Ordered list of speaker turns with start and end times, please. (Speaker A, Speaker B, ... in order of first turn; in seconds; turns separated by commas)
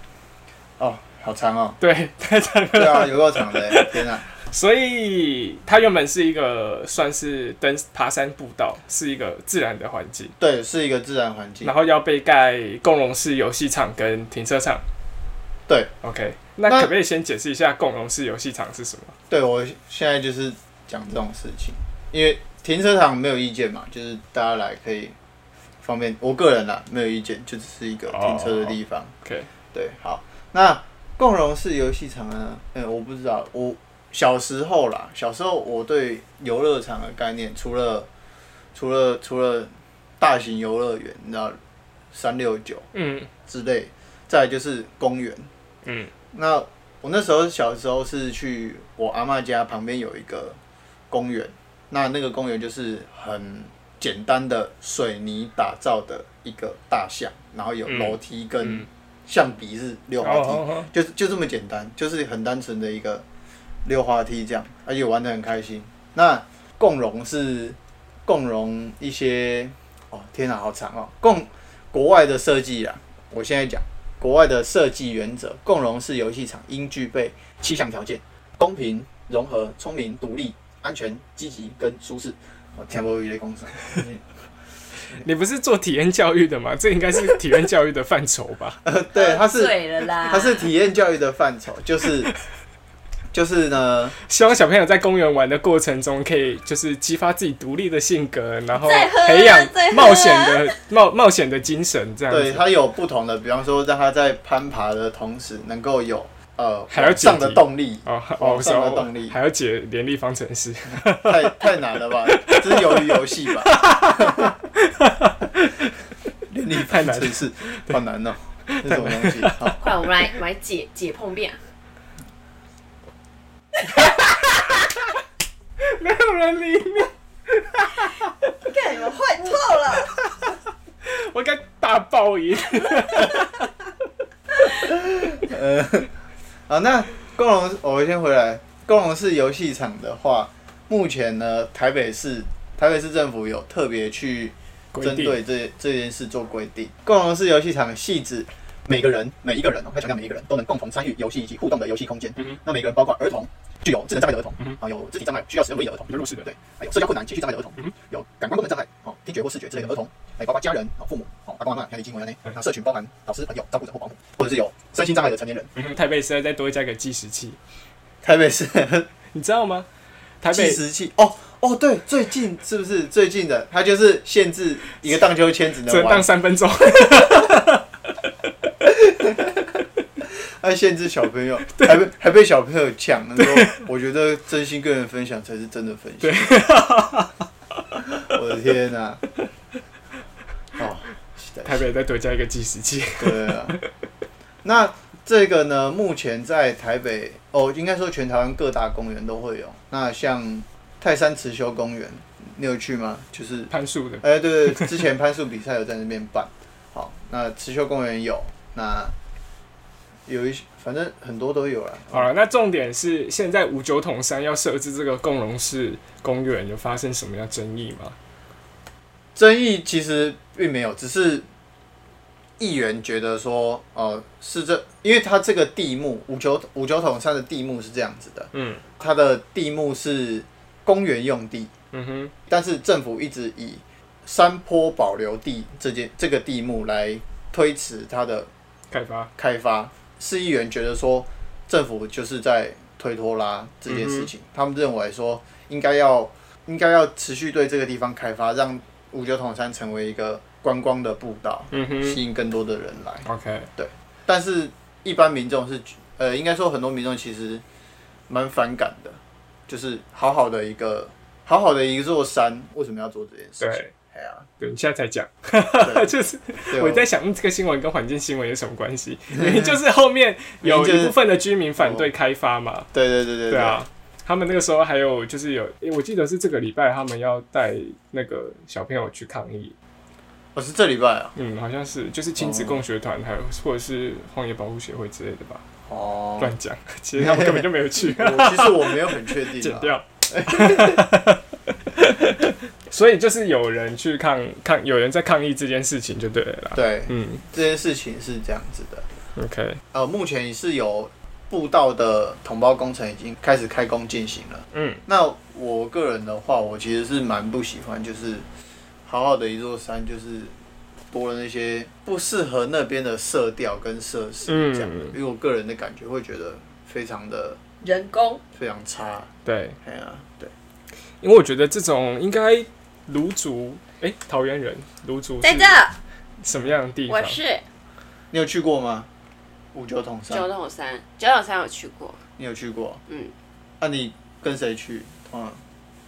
Speaker A: 0.8-1.8, Speaker B: 1.8-10.3, Speaker A: 2.7-4.2, Speaker A: 10.4-11.7, Speaker B: 11.6-14.8, Speaker B: 16.0-19.2, Speaker A: 16.7-16.9, Speaker A: 19.3-25.1, Speaker A: 25.8-29.1, Speaker B: 28.1-29.5, Speaker A: 29.7-38.1, Speaker A: 38.8-41.6, Speaker A: 42.1-42.9, Speaker B: 42.9-43.3, Speaker A: 43.5-45.5, Speaker B: 45.9-46.1, Speaker A: 46.3-50.6, Speaker A: 51.1-63.2, Speaker B: 57.9-58.9, Speaker B: 60.2-60.9, Speaker A: 63.9-84.2, Speaker B: 85.1-88.8, Speaker A: 88.8-92.3, Speaker C: 89.1-90.7, Speaker A: 93.3-94.2, Speaker B: 94.3-102.7, Speaker C: 98.7-100.8, Speaker A: 102.3-109.4, Speaker B: 106.9-111.6, Speaker A: 111.1-114.5, Speaker B: 112.3-115.9, Speaker A: 116.5-119.8, Speaker B: 116.8-118.0, Speaker B: 118.7-119.8, Speaker C: 119.8-121.6, Speaker B: 125.8-128.3, Speaker C: 128.7-130.1, Speaker B: 131.1-133.7, Speaker A: 134.9-136.1, Speaker A: 136.7-165.7, Speaker B: 144.9-145.4, Speaker B: 165.8-167.6, Speaker A: 168.2-169.1, Speaker B: 169.3-169.9, Speaker B: 170.4-170.8, Speaker A: 170.5-176.3, Speaker B: 175.8-177.8, Speaker A: 178.8-186.6, Speaker B: 181.8-182.1, Speaker B: 183.4-183.8, Speaker B: 186.2-187.4, Speaker A: 188.2-189.2, Speaker A: 190.8-191.8, Speaker B: 191.7-193.8, Speaker A: 193.2-193.8, Speaker A: 194.6-209.2, Speaker B: 203.7-205.0, Speaker A: 210.3-212.3, Speaker B: 212.1-218.2, Speaker A: 219.4-221.4, Speaker A: 222.6-231.7, Speaker B: 228.5-228.8, Speaker B: 231.9-232.3, Speaker A: 232.5-238.5, Speaker B: 238.9-239.3, Speaker A: 239.4-253.2, Speaker B: 243.9-244.3, Speaker B: 251.7-252.2, Speaker B: 253.2-253.7, Speaker A: 253.8-257.6, Speaker A: 258.3-264.5, Speaker B: 263.6-263.9, Speaker B: 264.6-272.9, Speaker A: 265.8-266.1, Speaker A: 266.7-267.1, Speaker A: 269.4-269.7, Speaker A: 270.6-271.2, Speaker A: 271.8-272.1, Speaker A: 272.9-273.8, Speaker B: 273.5-279.8, Speaker A: 280.6-281.3, Speaker B: 281.4-285.6, Speaker A: 282.4-282.8, Speaker A: 285.9-286.5, Speaker B: 286.4-297.4, Speaker A: 287.2-291.1, Speaker A: 296.7-299.1, Speaker B: 299.4-299.8, Speaker A: 299.9-308.5, Speaker B: 304.7-305.0, Speaker A: 309.1-310.5, Speaker A: 311.1-317.6, Speaker B: 314.5-315.2, Speaker C: 317.8-318.4, Speaker A: 318.5-319.3, Speaker B: 319.4-319.8, Speaker A: 319.8-320.5, Speaker B: 321.2-325.8, Speaker C: 325.4-326.0, Speaker B: 326.4-327.4, Speaker C: 327.1-327.6, Speaker A: 328.3-329.1, Speaker A: 329.7-330.5, Speaker C: 330.3-332.2, Speaker A: 332.4-333.0, Speaker C: 333.1-333.3, Speaker A: 333.8-335.6